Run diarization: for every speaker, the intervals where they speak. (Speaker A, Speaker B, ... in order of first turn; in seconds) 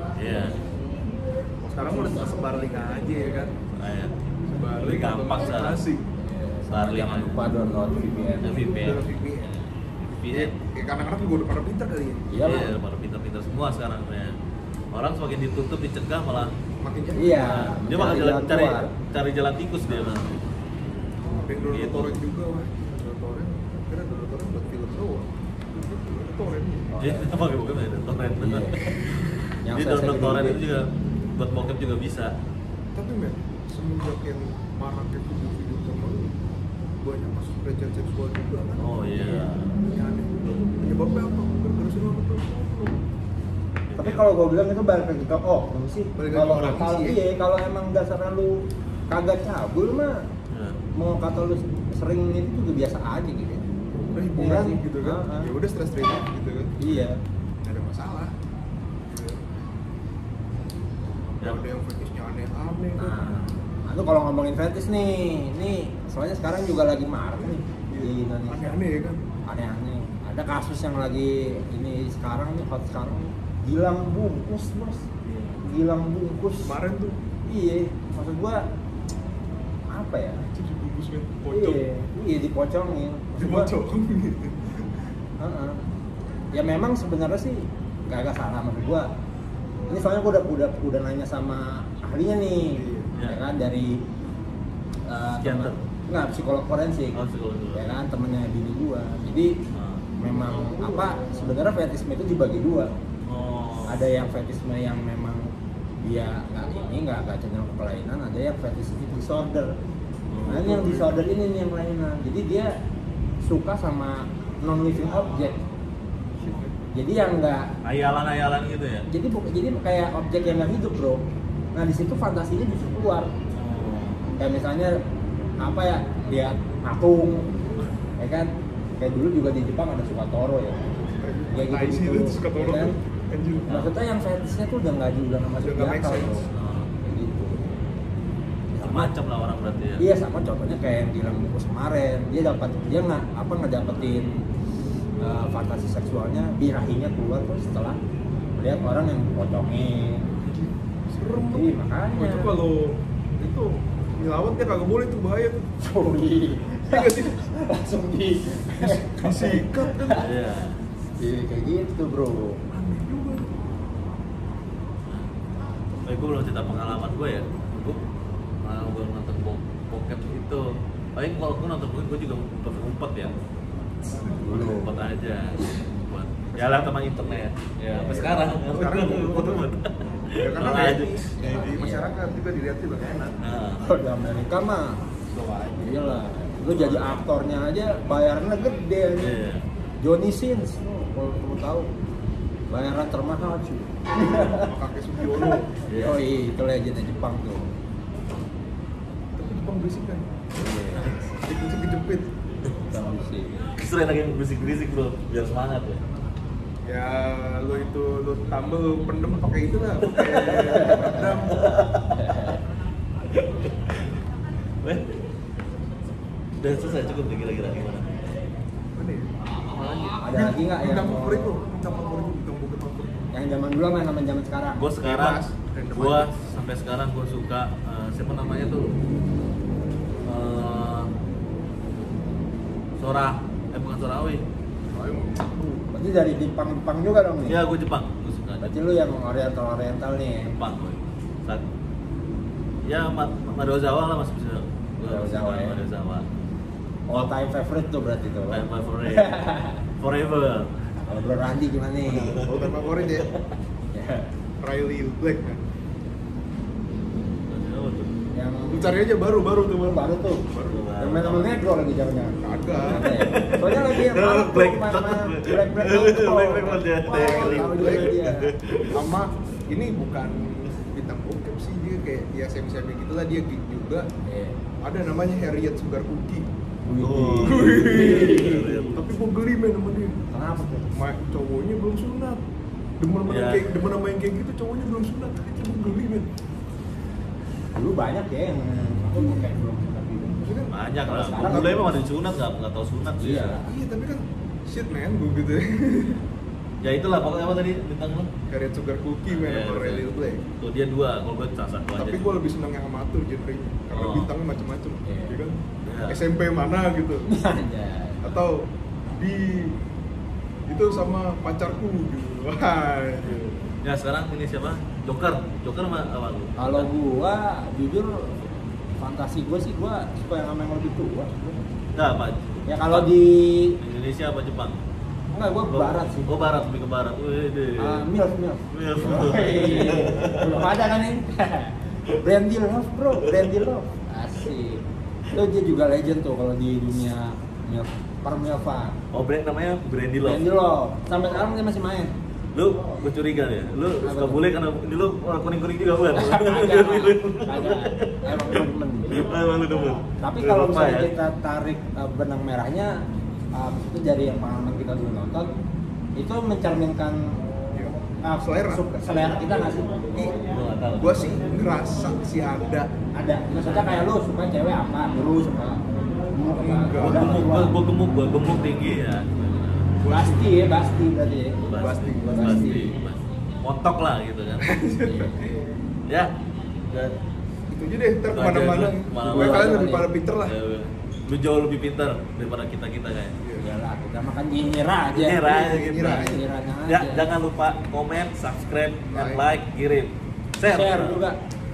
Speaker A: 0.1-0.6, 3.8-4.1, 4.8-5.8, 6.7-7.4, 8.4-10.5, 12.4-14.3, 14.9-16.5, 17.4-20.4, 21.7-22.2, 27.0-32.3, 38.8-39.8, 43.9-44.2, 50.5-50.8, 61.4-61.6, 63.1-63.6, 93.1-93.4, 95.4-95.8, 97.1-97.9, 99.7-100.1, 103.2-104.0, 110.3-111.2, 117.8-119.0, 123.6-124.3, 136.5-136.9, 138.8-140.0, 160.1-160.8, 166.1-168.0, 168.6-173.4, 174.4-181.8, 183.4-183.8, 186.6-187.2, 189.2-189.6, 195.9-196.2, 203.7-206.0, 210.1-212.6, 213.3-214.0, 214.8-215.1, 216.6-218.1, 224.8-225.4, 225.9-228.9, 230.2-231.1, 233.0-234.4, 237.4-238.8, 240.5-241.6, 242.8-246.3, 248.5-250.7, 252.1-253.4, 257.5-258.1, 260.6-261.6, 262.9-269.1, 277.0-279.0, 283.2-283.8, 290.7-293.6, 296.8-298.3, 299.3-300.1, 300.6-302.3, 303.9-304.3, 305.8-306.2, 313.8-316.9, 321.9-323.1, 323.8-324.8, 325.7-328.1, 328.7-330.7, 339.1-340.5, 342.5-351.1, 360.4-361.3, 363.5-364.1, 367.0-370.0, 371.6-374.7, 376.1-376.3, 376.9-377.2, 378.2-379.8, 380.4-383.4, 385.1-391.2
Speaker B: 1.6-3.5, 4.5-6.1, 8.8-9.5, 10.3-12.3, 16.8-17.6, 21.2-26.9, 32.9-36.3, 37.0-39.3, 39.9-43.0, 46.1-47.2, 54.1-56.8, 57.6-58.3, 59.0-59.4, 61.4-63.2, 67.4-69.2, 76.6-77.2, 80.5-81.8, 83.4-85.0, 92.7-93.1, 100.2-101.6, 131.0-133.8, 135.6-136.4, 150.4-155.6, 156.9-157.5, 158.8-160.3, 162.7-163.8, 178.1-179.7, 180.4-183.4, 185.3-186.2, 194.5-195.7, 199.3-200.3, 201.4-202.3, 206.8-211.6, 218.9-223.2, 225.0-226.3, 234.9-235.5, 252.3-253.3, 254.6-255.6, 258.7-260.9, 262.4-263.1, 267.1-268.2, 268.9-274.1, 274.8-276.5, 277.4-280.2, 280.9-282.4, 283.0-286.3, 290.4-291.8, 293.6-296.2, 298.5-300.4, 301.9-307.3, 308.2-309.8, 310.7-313.6, 357.7-358.9, 361.0-362.9, 366.6-367.4, 370.0-370.6, 371.6-372.8, 374.6-375.6, 377.7-380.5, 385.4-386.4, 389.1-389.4
Speaker C: 1.8-3.5, 6.2-8.8, 12.3-12.8, 17.1-18.9, 19.9-20.3, 26.9-27.4, 28.4-29.0, 29.6-30.6, 39.1-39.5, 44.0-50.2, 51.0-53.7, 54.3-55.5, 56.8-57.2, 63.0-63.3, 63.8-68.8, 69.5-75.1, 75.6-76.7, 77.5-78.6, 79.9-80.4, 81.5-83.7, 85.4-85.8, 86.5-89.1, 89.9-94.0, 95.0-97.2, 97.7-99.6, 100.2-102.9, 103.8-105.5, 106.0-109.7, 110.5-112.7, 113.4-115.6, 116.9-117.7, 119.1-121.2, 121.7-123.3, 124.3-124.9, 125.6-127.5, 128.2-130.9, 131.5-132.9, 133.7-136.5, 137.0-137.9, 138.7-139.1, 140.0-144.4, 145.2-148.0, 148.6-150.2, 151.5-152.5, 155.8-160.2, 161.2-162.6, 174.4-174.9, 177.9-178.4, 181.4-182.3, 183.8-185.0, 185.8-189.3, 190.0-191.9, 192.7-194.7, 195.3-197.7, 200.6-201.4, 202.9-203.6, 210.4-211.3, 212.2-212.6, 220.2-221.5, 223.3-224.8, 235.5-237.6, 238.6-240.5, 245.0-245.8, 247.1-249.8, 251.1-252.5, 253.9-254.3, 258.3-259.1, 259.8-260.4, 261.0-268.5, 274.2-274.6, 276.8-278.9, 280.3-280.9, 287.7-291.9, 293.2-293.6, 305.1-305.4, 307.3-308.3, 316.6-318.4, 319.0-321.6, 322.7-323.8, 325.3-326.4, 327.8-339.0, 340.2-342.1, 344.0-344.4, 346.1-349.3, 350.2-352.9, 353.5-355.5, 356.2-357.4, 358.2-360.3, 363.1-367.8, 370.1-371.6, 372.2-373.0, 375.0-375.5, 379.2-380.1, 383.6-387.3, 390.6-391.4